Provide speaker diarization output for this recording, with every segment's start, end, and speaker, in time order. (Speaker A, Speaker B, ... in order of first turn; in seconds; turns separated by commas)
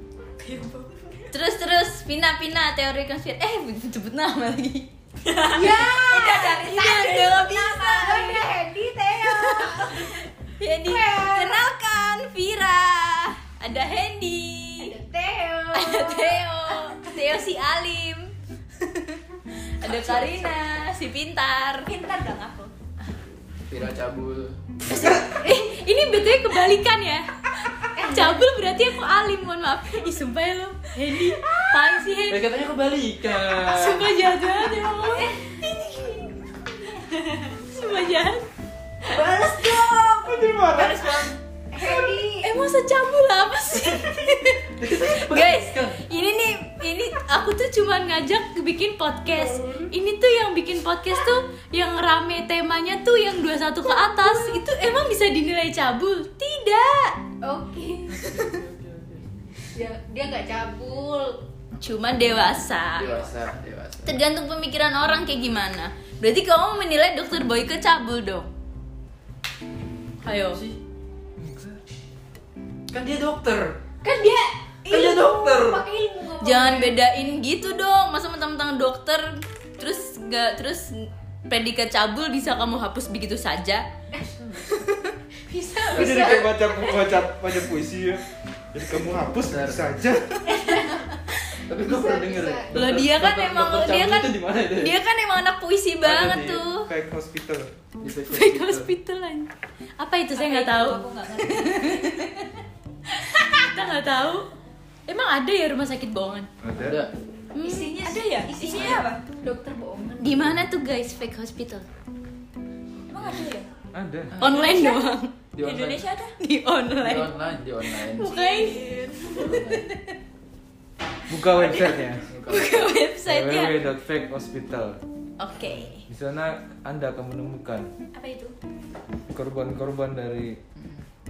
Speaker A: 0.4-1.3, Speaker B: 1.3-4.9, Speaker A: 5.2-10.1, Speaker C: 5.5-10.1, Speaker B: 5.6-8.5, Speaker B: 10.6-14.9, Speaker C: 10.9-11.6, Speaker C: 14.9-16.2, Speaker B: 15.7-19.2, Speaker B: 19.8-21.9, Speaker D: 19.8-20.5, Speaker A: 21.8-22.7, Speaker D: 23.7-24.6, Speaker B: 24.9-27.3, Speaker C: 27.9-28.4, Speaker B: 28.0-32.4, Speaker D: 32.3-34.2, Speaker B: 33.6-35.3, Speaker C: 34.9-36.4, Speaker A: 37.0-37.6, Speaker B: 37.7-38.5, Speaker A: 39.1-41.4, Speaker C: 39.1-40.2, Speaker E: 39.5-41.3, Speaker C: 41.7-42.5, Speaker B: 41.8-57.2, Speaker D: 44.7-46.0, Speaker E: 49.3-49.9, Speaker C: 53.9-54.6, Speaker C: 57.4-58.3, Speaker D: 58.1-59.3, Speaker C: 59.7-61.4, Speaker B: 61.8-63.1, Speaker D: 62.9-64.2, Speaker B: 64.0-68.5, Speaker B: 70.2-70.6, Speaker D: 70.2-70.8, Speaker D: 71.4-71.8, Speaker D: 72.9-73.8, Speaker C: 74.0-77.0, Speaker D: 74.9-75.8, Speaker B: 76.4-83.8, Speaker C: 84.1-84.7, Speaker B: 84.7-85.1, Speaker C: 85.5-87.1, Speaker E: 85.9-90.6, Speaker D: 85.9-86.5, Speaker D: 89.4-89.8, Speaker C: 90.5-91.2, Speaker B: 90.7-90.9, Speaker D: 91.7-94.9, Speaker C: 91.8-92.7, Speaker B: 92.7-96.9, Speaker E: 96.0-97.7, Speaker D: 98.0-98.9, Speaker B: 98.3-102.5, Speaker A: 100.3-102.4, Speaker B: 103.1-104.5, Speaker B: 105.1-106.5, Speaker E: 106.6-107.1, Speaker D: 106.8-107.1, Speaker B: 107.5-108.2, Speaker C: 107.6-110.5, Speaker A: 107.8-109.2, Speaker B: 110.2-111.8, Speaker A: 113.1-113.7, Speaker E: 113.9-114.4, Speaker D: 114.3-114.8, Speaker B: 114.4-115.3, Speaker A: 114.5-115.0, Speaker D: 115.5-116.0, Speaker A: 115.6-116.3, Speaker B: 116.4-120.1, Speaker D: 117.0-118.3, Speaker A: 118.2-119.6, Speaker D: 119.4-119.8, Speaker E: 121.3-122.3, Speaker D: 122.2-122.9, Speaker B: 122.5-123.8, Speaker E: 123.2-125.0, Speaker B: 125.4-126.0, Speaker E: 126.1-127.9, Speaker A: 128.1-128.6, Speaker E: 129.3-130.6, Speaker D: 130.7-131.0